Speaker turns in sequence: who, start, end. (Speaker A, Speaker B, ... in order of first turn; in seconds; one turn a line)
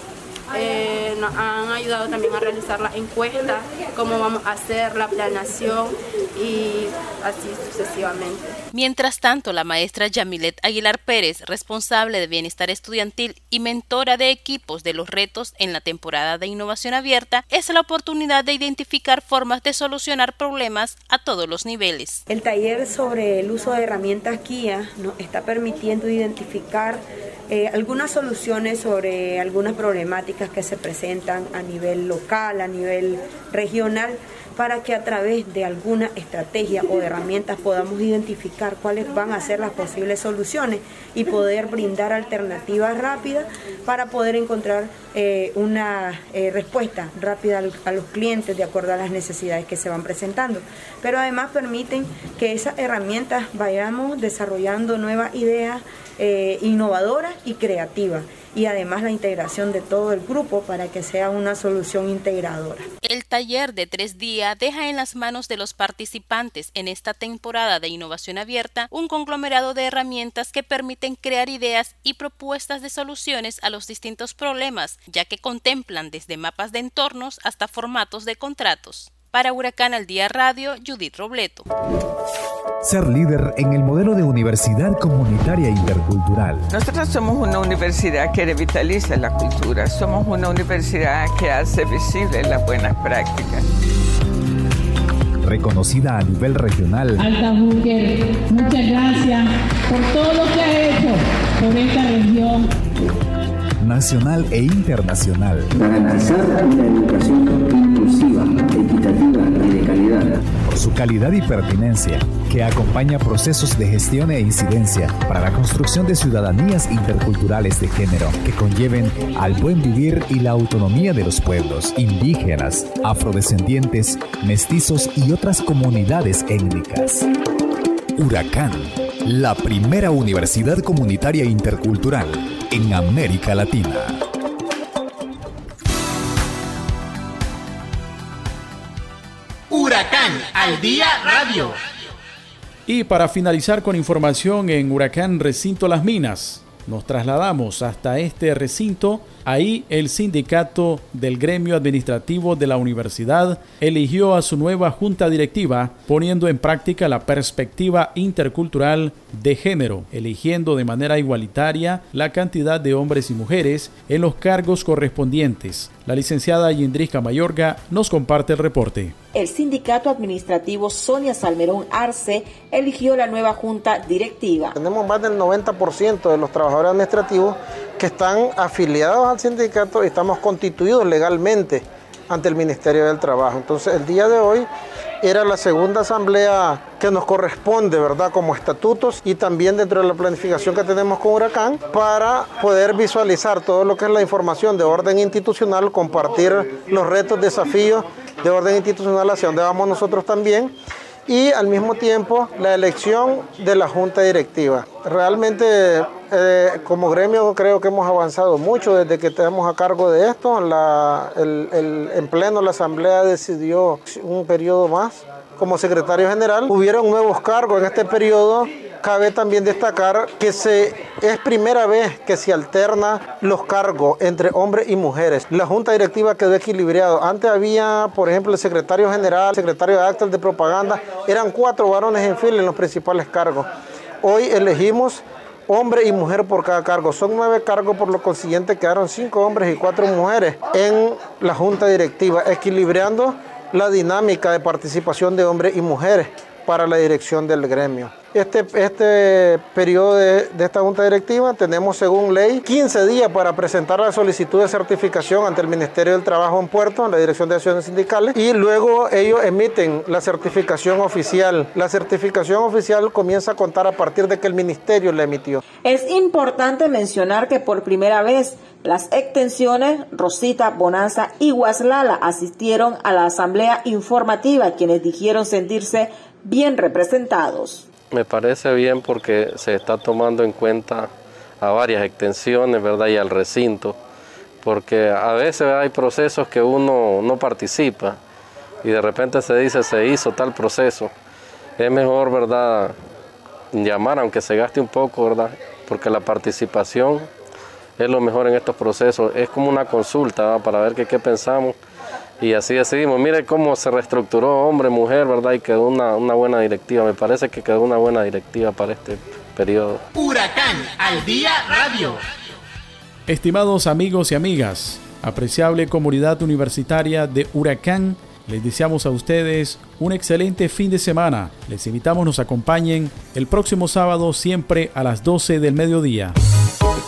Speaker A: 0.5-8.5
Speaker B: 8.7-22.2
Speaker C: 22.3-62.9
Speaker B: 63.0-81.7
Speaker D: 82.8-86.7
Speaker E: 86.7-93.6
Speaker D: 95.4-97.2
Speaker F: 97.2-102.7
Speaker D: 103.8-105.7
Speaker G: 105.8-110.3
Speaker D: 110.7-127.3
Speaker D: 128.2-134.2
Speaker H: 139.7-141.8
Speaker I: 142.9-169.2
Speaker J: 169.3-174.7
Speaker K: 174.7-184.7
Speaker K: 185.2-200.7
Speaker K: 201.3-233.7
Speaker K: 234.2-265.6
Speaker J: 265.8-277.9
Speaker L: 278.1-284.0
Speaker L: 284.6-288.2
Speaker L: 288.8-291.1
Speaker L: 291.8-292.9
Speaker L: 293.7-297.3
Speaker L: 298.0-301.8
Speaker L: 302.4-310.1
Speaker H: 310.2-312.2
Speaker I: 313.3-326.4